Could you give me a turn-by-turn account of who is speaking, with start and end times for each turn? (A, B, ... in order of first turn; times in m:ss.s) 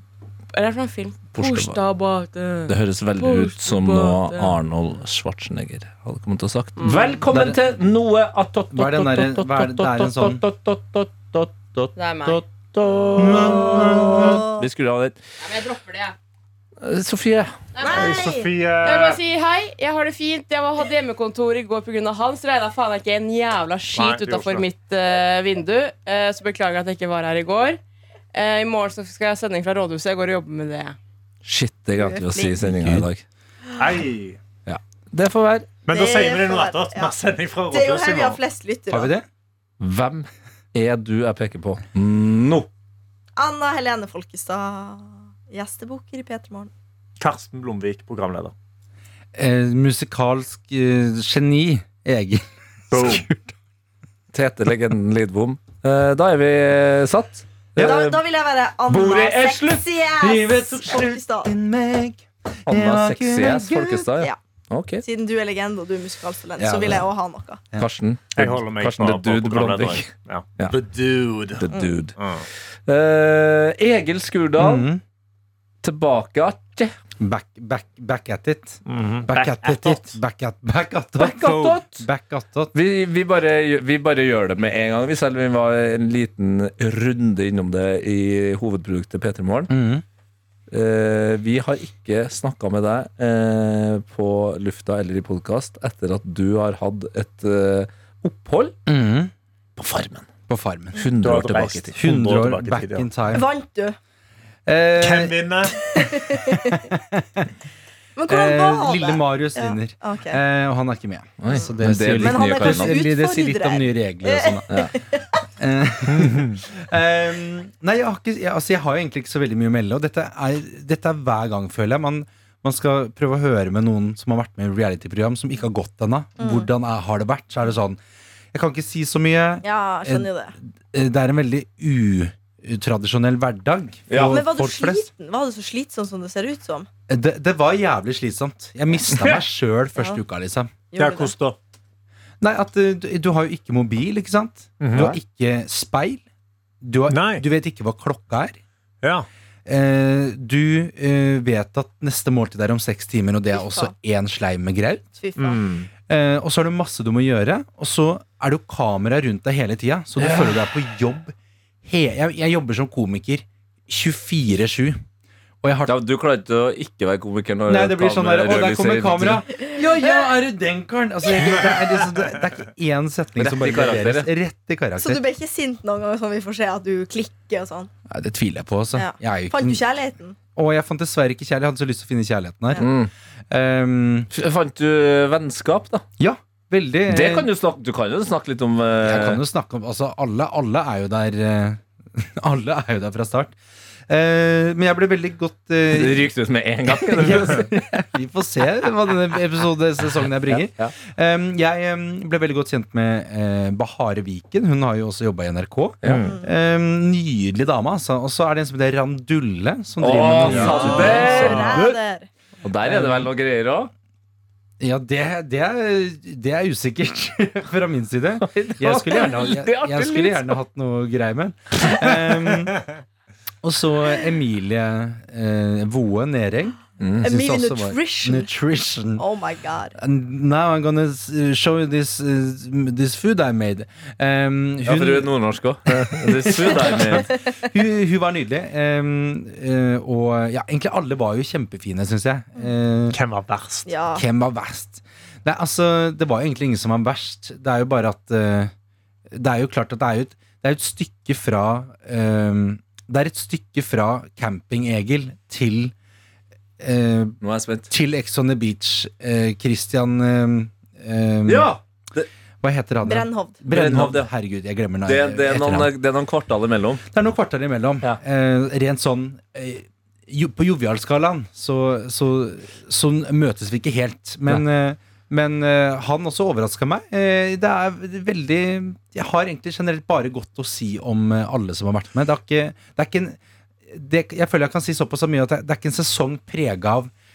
0:00.5-0:04.6 A
0:01.3-0:01.8 B
0:02.7-0:15.2 B
0:06.8-0:07.2 A
0:07.3-0:07.6 C
0:08.7-0:10.4 C
0:12.0-0:12.4 A
0:13.2-0:14.4 C
0:13.7-0:14.2 D
0:14.1-0:14.6 E
0:15.5-0:16.1 A
0:16.8-0:17.5 B
0:17.8-0:18.5 E
0:17.9-0:19.2 D
0:18.8-0:27.8 A
0:23.9-0:24.7 D
0:28.3-0:31.0 A
0:31.4-0:33.2 B
0:32.4-0:33.1 C
0:33.8-0:34.4 D
0:34.7-0:35.7 B
0:35.9-0:38.4 D
0:35.9-0:37.1 E
0:37.7-0:39.1 E
0:38.9-0:39.3 C
0:39.8-0:42.7 B
0:43.4-0:46.7 E
0:47.2-0:48.5 D
0:49.4-0:53.5 C
0:52.9-0:53.3 D
0:54.3-0:58.2 B
0:57.8-1:01.5 E
0:58.9-0:59.8 B
1:00.2-1:04.2 C
1:02.7-1:05.0 B
1:05.0-1:07.6 E
1:06.6-1:07.1 C
1:07.8-1:10.8 B
1:08.4-1:11.6 D
1:11.6-1:12.2 B
1:12.2-1:12.5 D
1:12.9-1:14.9 B
1:14.6-1:15.0 C
1:15.8-1:16.9 B
1:17.2-1:22.7 C
1:18.9-1:20.1 D
1:21.2-1:22.1 B
1:22.7-1:29.7 B
1:29.7-1:30.0 C
1:30.7-1:38.8 B
1:38.9-1:39.3 C
1:39.8-1:40.3 B
1:40.5-1:41.0 C
1:41.0-1:42.0 B
1:41.2-1:43.1 D
1:42.0-1:43.5 C
1:43.3-1:44.0 E
1:44.7-1:45.7 C
1:45.0-1:45.8 D
1:45.9-1:46.8 E
1:46.6-1:47.5 C
1:48.2-1:50.4 E
1:48.3-1:54.8 C
1:51.4-1:53.0 B
1:52.2-1:55.4 E
1:55.5-2:08.0 C
1:56.1-1:56.6 D
2:06.4-2:06.7 E
2:08.5-2:10.3 C
2:09.6-2:10.5 E
2:10.9-2:15.1 C
2:14.1-2:14.4 B
2:14.2-2:16.9 E
2:17.1-2:20.7 C
2:19.1-2:19.4 B
2:20.9-2:21.4 E
2:21.0-2:21.6 D
2:22.4-2:26.2 C
2:24.8-2:25.1 D
2:26.8-2:28.6 C
2:27.1-2:27.4 D
2:29.0-2:29.3 D
2:29.7-2:35.2 C
2:33.5-2:33.9 E
2:35.2-2:35.6 E
2:35.4-2:35.9 D
2:36.1-2:41.3 C
2:40.2-2:40.7 B
2:41.8-2:45.0 C
2:45.6-2:46.0 C
2:45.9-2:49.4 B
2:47.7-2:55.2 C
2:53.4-2:54.3 B
2:55.0-2:57.9 E
2:58.1-2:59.8 C
2:58.9-3:00.4 E
3:00.6-3:02.9 C
3:02.8-3:03.1 B
3:03.5-3:04.3 C
3:04.3-3:06.0 B
3:06.2-3:07.5 C
3:07.1-3:09.4 B
3:09.0-3:13.6 C
3:14.1-3:16.3 C
3:15.9-3:17.7 B
3:16.9-3:31.9 C
3:20.5-3:20.9 B
3:26.1-3:26.3 D
3:30.0-3:32.0 B
3:30.4-3:31.3 D
3:30.5-3:32.3 E
3:32.6-3:33.9 B
3:32.8-3:33.3 C
3:34.8-3:42.8 C
3:38.4-3:40.6 B
3:43.6-3:49.2 C
3:47.2-3:48.5 E
3:49.2-3:50.0 E
3:50.0-3:55.3 C
3:54.8-3:57.3 B
3:55.9-4:03.2 C
4:03.1-4:03.9 D
4:03.9-4:04.2 E
4:04.1-4:08.7 C
4:09.3-4:15.9 C
4:16.8-4:17.4 C
4:17.4-4:17.9 B
4:17.9-4:21.7 C
4:21.5-4:22.3 B
4:22.6-4:25.9 C
4:23.0-4:23.6 E
4:23.7-4:24.3 B
4:25.1-4:27.0 B
4:27.1-4:43.4 C
4:43.9-4:47.1 C